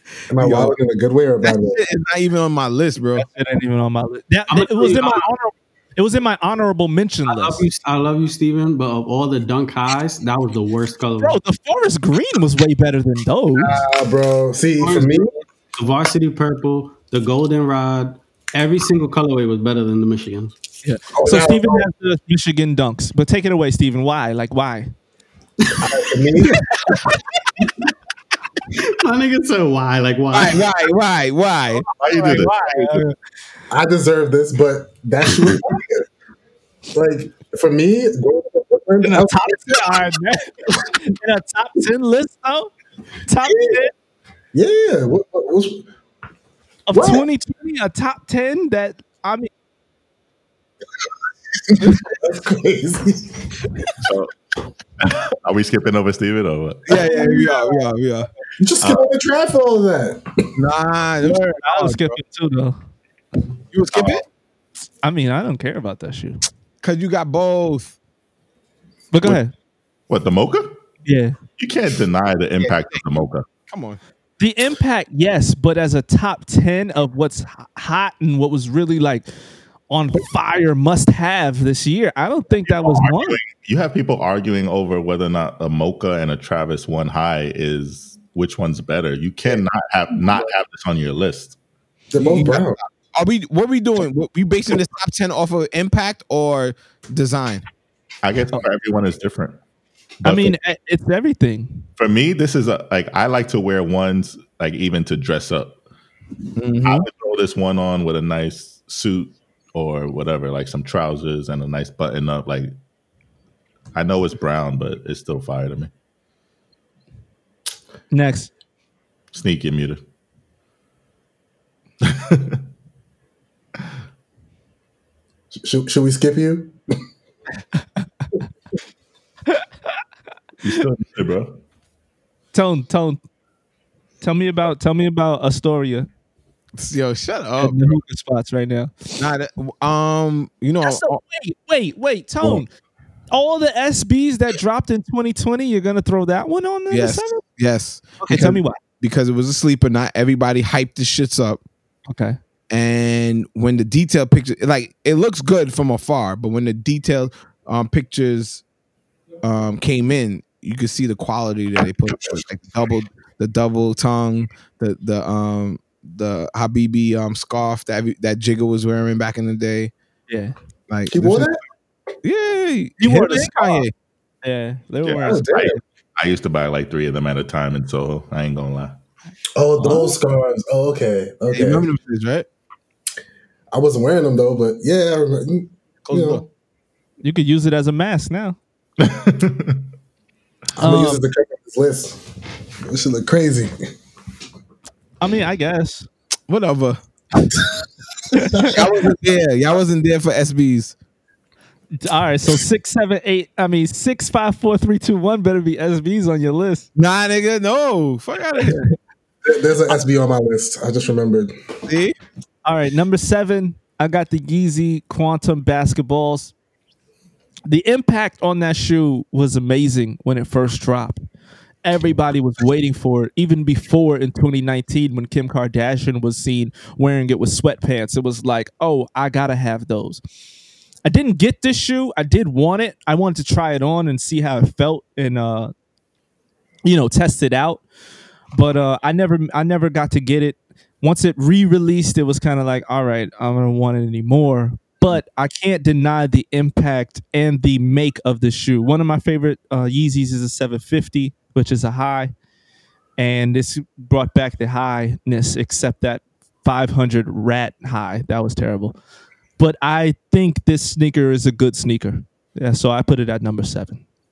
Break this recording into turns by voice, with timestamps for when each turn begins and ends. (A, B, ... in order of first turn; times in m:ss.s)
0:00.3-0:01.8 A
0:00.4-0:00.8 B
0:01.4-0:03.2 B
0:03.2-0:07.6 C
0:04.5-0:05.3 D
0:07.2-0:11.4 D
0:11.2-0:13.8 C
0:13.6-0:15.4 A
0:14.8-0:20.6 D
0:20.8-0:24.9 C
0:21.1-0:21.8 A
0:25.8-0:26.6 A
0:26.5-0:27.0 B
0:28.8-0:30.8 D
0:30.3-0:31.8 B
0:31.9-0:33.1 E
0:31.9-0:33.1 C
0:33.7-0:36.0 A
0:36.9-0:40.0 A
0:39.0-0:42.7 C
0:43.3-0:43.9 C
0:44.5-0:45.9 A
0:46.9-0:49.5 C
0:46.9-0:47.2 A
0:51.7-0:53.4 A
0:51.8-0:52.0 B
0:54.0-0:54.3 E
0:55.0-0:56.8 E
0:56.8-0:58.3 B
0:57.0-0:57.8 C
0:58.6-1:00.3 A
0:58.8-0:59.1 E
1:00.6-1:02.2 B
1:01.2-1:02.8 C
1:03.7-1:04.2 B
1:03.9-1:04.2 E
1:05.0-1:06.4 C
1:06.8-1:08.0 B
1:09.1-1:09.5 C
1:10.1-1:10.7 E
1:11.0-1:11.4 C
1:11.6-1:13.4 E
1:12.6-1:13.0 B
1:13.7-1:14.0 B
1:14.4-1:19.3 C
1:19.9-1:23.4 C
1:22.6-1:31.6 E
1:32.1-1:32.8 A
1:32.2-1:37.6 B
1:38.2-1:39.6 E
1:40.2-1:41.9 C
1:42.0-1:45.8 E
1:46.6-1:47.1 B
1:46.8-1:52.7 E
1:53.9-1:55.9 E
1:58.1-1:58.5 C
1:59.3-2:00.0 E
2:02.0-2:02.6 E
2:05.6-2:06.8 A
2:10.6-2:11.6 E
2:12.5-2:13.2 C
2:14.2-2:16.1 C
2:16.8-2:18.0 B
2:17.6-2:18.9 C
2:19.2-2:21.2 B
2:20.8-2:22.7 C
2:23.3-2:27.4 C
2:26.9-2:31.6 B
2:28.2-2:28.8 C
2:32.1-2:32.4 C
2:32.7-2:38.6 B
2:39.4-2:49.9 B
2:50.3-2:50.5 C
2:50.9-2:51.5 B
2:51.1-2:51.6 A
2:52.2-2:53.9 B
2:53.0-2:53.8 C
2:54.4-2:55.4 C
2:55.0-2:59.0 E
2:55.2-2:55.7 B
2:55.2-2:55.8 A
2:59.6-3:01.8 A
3:01.5-3:02.5 B
3:03.7-3:06.4 A
3:06.0-3:06.4 B
3:07.2-3:08.6 C
3:09.0-3:09.8 E
3:10.8-3:12.2 A
3:10.8-3:11.2 C
3:12.9-3:13.7 A
3:15.2-3:16.1 C
3:16.5-3:17.0 B
3:18.3-3:18.8 C
3:18.6-3:20.9 B
3:22.0-3:26.8 C
3:27.0-3:28.8 B
3:28.6-3:28.9 C
3:29.4-3:31.5 A
3:31.9-3:32.2 B
3:32.6-3:36.5 C
3:37.7-3:41.2 C
3:41.8-3:50.2 C
3:51.0-3:55.7 C
3:56.8-3:57.8 C
3:58.5-4:12.3 C
4:13.2-4:19.0 C
4:19.6-4:24.0 C